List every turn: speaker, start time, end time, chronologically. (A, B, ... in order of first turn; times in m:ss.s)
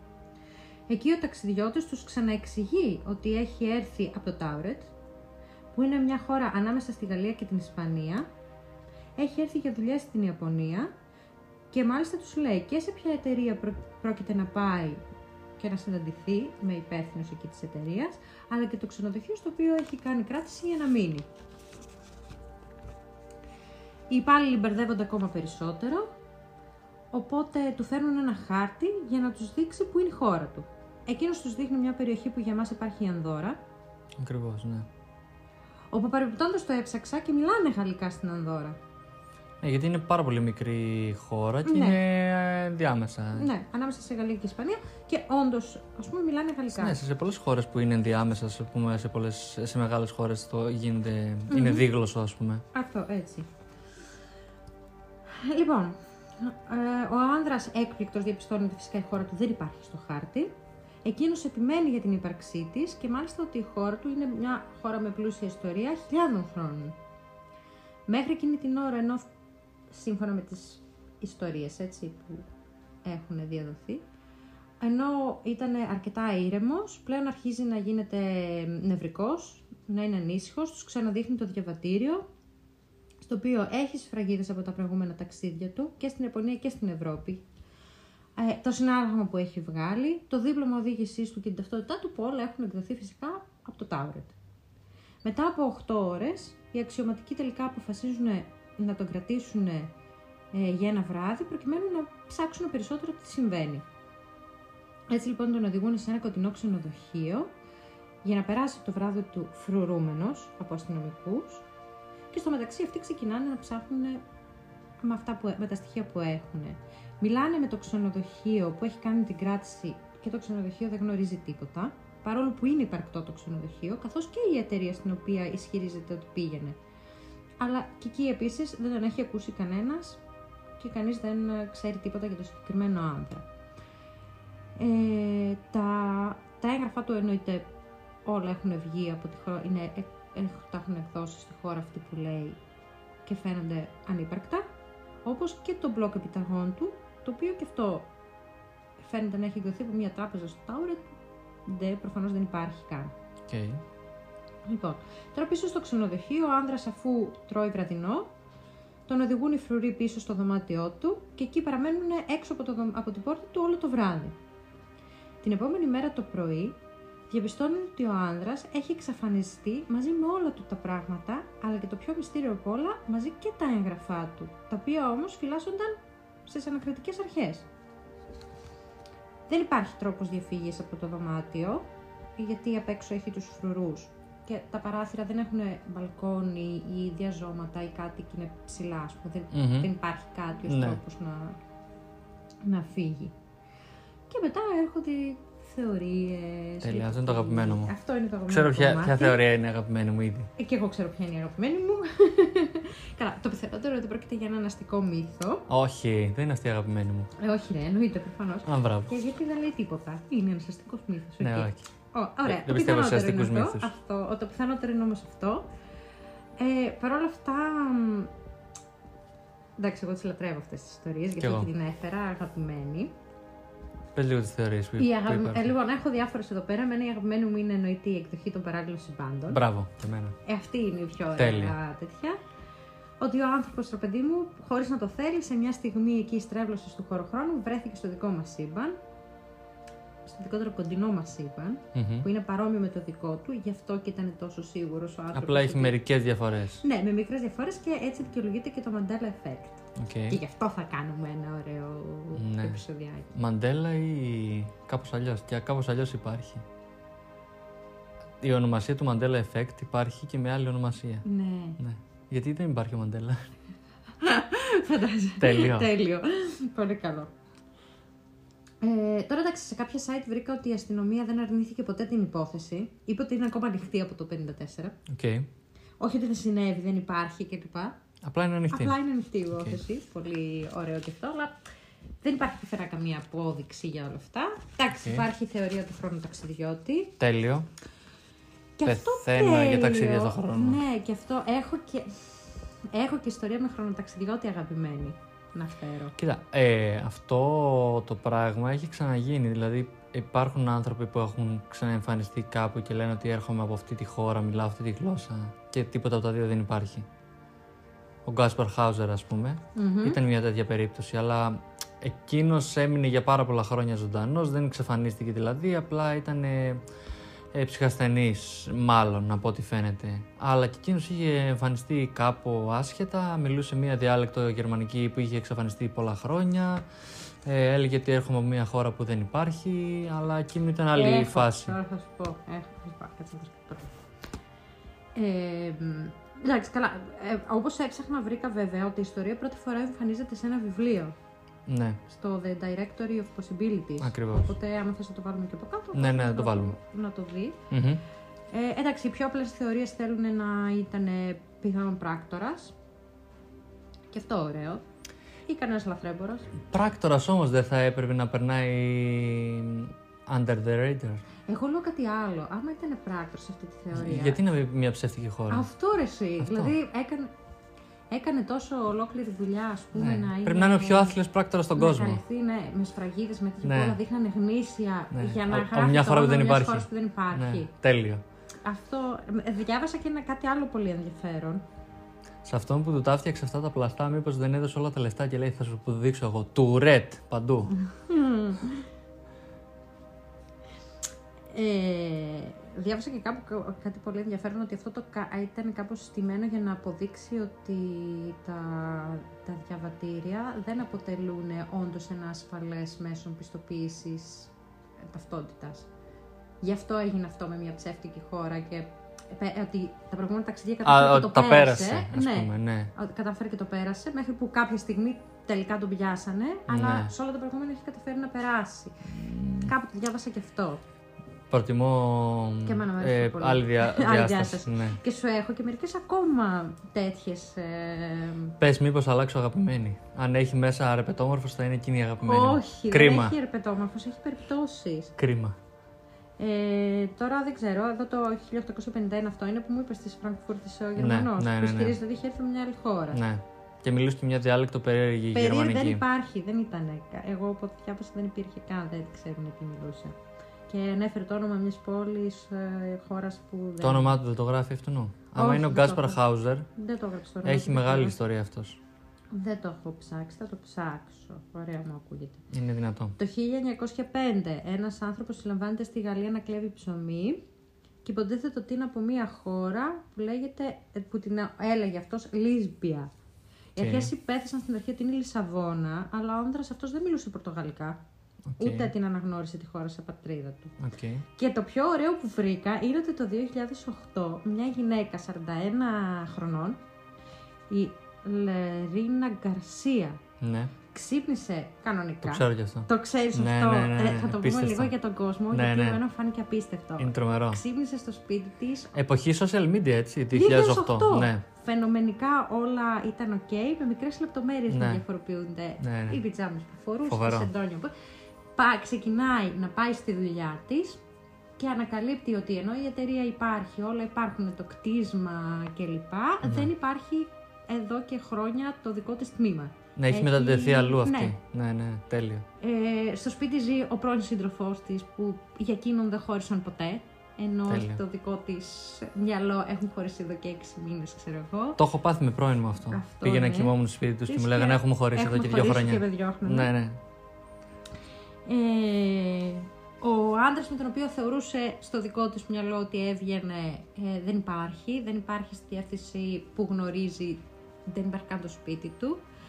0:00.9-0:04.9 A
0:05.7-0:08.3 A
0:09.2-0:10.9 A
0:11.7-0:15.0 A
0:15.6-0:21.2 A
0:24.1-0:26.1 A
0:27.1-0:33.6 A
0:34.2-0:34.9 B
0:35.9-0:38.8 A
0:39.6-0:43.5 B
0:41.6-0:42.0 A
0:43.4-0:47.0 A
0:46.7-0:52.6 B
0:51.5-0:51.8 A
0:52.7-0:53.5 A
0:55.3-1:00.5 A
1:01.0-1:07.0 A
1:08.1-1:09.3 A
1:09.9-1:12.5 A
1:13.0-1:14.0 A
1:14.8-1:22.2 A
1:23.2-1:27.4 A
1:28.4-1:34.3 A
1:35.2-1:39.9 A
1:40.5-1:43.8 A
1:45.1-1:47.5 A
1:48.2-1:51.6 A
1:52.3-1:54.2 A
1:55.0-2:06.8 A
2:07.6-2:10.2 A
2:10.8-2:13.4 A
2:14.8-2:17.7 A
2:18.2-2:22.6 A
2:23.2-2:24.7 A
2:25.2-2:28.1 A
2:29.0-2:31.1 A
2:31.6-2:33.1 A
2:33.5-2:33.8 B
2:34.7-2:38.3 A
2:39.1-2:44.4 A
2:45.4-2:46.8 A
2:47.3-2:57.6 A
2:59.5-3:11.6 A
3:09.5-3:09.9 B
3:10.7-3:11.0 B
3:12.6-3:13.3 A
3:14.3-3:19.4 A
3:16.8-3:17.9 B
3:18.5-3:20.5 B
3:20.6-3:25.6 A
3:25.7-3:27.3 B
3:27.4-3:35.7 A
3:28.6-3:29.1 B
3:31.4-3:31.8 B
3:32.4-3:33.9 B
3:36.6-3:38.3 A
3:39.8-3:43.1 A
3:41.4-3:41.7 B
3:44.1-3:45.7 B
3:45.0-3:49.6 A
3:49.5-3:50.4 B
3:50.4-3:52.4 A
3:51.4-3:51.7 B
3:53.2-3:59.0 A
4:00.2-4:06.0 A
4:01.9-4:02.2 B
4:05.3-4:06.8 B
4:06.8-4:13.3 A
4:10.0-4:10.4 B
4:12.3-4:12.8 B
4:13.3-4:16.6 B
4:18.4-4:21.2 B
4:21.2-4:21.8 A
4:21.8-4:23.4 B
4:24.2-4:27.3 A
4:25.4-4:25.9 B
4:28.8-4:35.0 A
4:35.1-4:35.5 B
4:36.0-4:38.0 A
4:38.2-4:39.0 B
4:38.7-4:41.6 A
4:39.5-4:39.8 B
4:42.2-4:47.2 A
4:45.0-4:45.2 B
4:47.2-4:47.7 B
4:48.8-4:52.4 A
4:48.8-4:50.8 B
4:52.9-4:56.1 A
4:56.2-5:07.1 B
5:08.2-5:16.8 B
5:09.7-5:10.2 A
5:17.5-5:26.8 B
5:27.4-5:31.8 B
5:30.9-5:33.9 A
5:35.1-5:41.1 A
5:41.7-5:42.0 B
5:42.1-5:47.6 A
5:44.0-5:44.5 B
5:45.9-5:46.7 B
5:47.7-5:48.0 B
5:48.5-5:52.7 A
5:54.1-5:54.8 A
5:55.5-5:56.6 A
5:56.7-6:01.2 B
6:01.5-6:04.4 A
6:03.9-6:05.6 B
6:05.5-6:07.3 A
6:06.4-6:06.7 B
6:08.1-6:11.2 A
6:09.9-6:12.2 B
6:11.8-6:17.7 A
6:13.6-6:14.0 B
6:15.1-6:18.2 B
6:18.6-6:21.6 A
6:22.4-6:27.8 B
6:27.8-6:28.9 A
6:31.5-6:44.5 A
6:45.0-6:45.9 A
6:46.6-6:59.1 A
6:50.8-6:52.9 B
6:56.7-6:57.1 B
6:59.1-6:59.7 B
6:59.6-7:00.8 A
7:01.5-7:05.0 B
7:02.6-7:08.5 A
7:08.6-7:13.3 B
7:12.2-7:15.1 A
7:15.2-7:15.6 B
7:16.4-7:23.2 A
7:21.0-7:22.0 B
7:23.1-7:26.0 B
7:25.3-7:30.2 A
7:30.7-7:34.2 A
7:33.8-7:36.7 B
7:35.4-7:36.2 A
7:36.7-7:38.2 A
7:37.4-7:38.8 B
7:39.3-7:42.4 A
7:42.5-7:43.2 B
7:43.2-7:47.4 A
7:48.0-7:53.1 A
7:53.8-7:58.0 A
7:53.8-7:54.1 B
7:58.5-7:58.9 B
7:58.6-8:00.8 A
8:00.8-8:01.2 B
8:01.4-8:06.8 A
8:07.7-8:10.2 A
8:10.4-8:10.7 B
8:10.9-8:19.0 A
8:12.2-8:14.9 B
8:15.5-8:16.0 B
8:17.0-8:17.6 B
8:18.9-8:21.4 B
8:20.3-8:27.9 A
8:24.7-8:25.0 B
8:25.8-8:26.2 B
8:27.1-8:27.5 B
8:28.6-8:31.0 A
8:31.6-8:41.4 A
8:36.4-8:36.7 B
8:40.0-8:42.4 B
8:42.6-8:51.8 A
8:47.7-8:48.0 B
8:51.8-8:57.0 B
8:52.9-8:56.7 A
8:58.4-9:09.2 A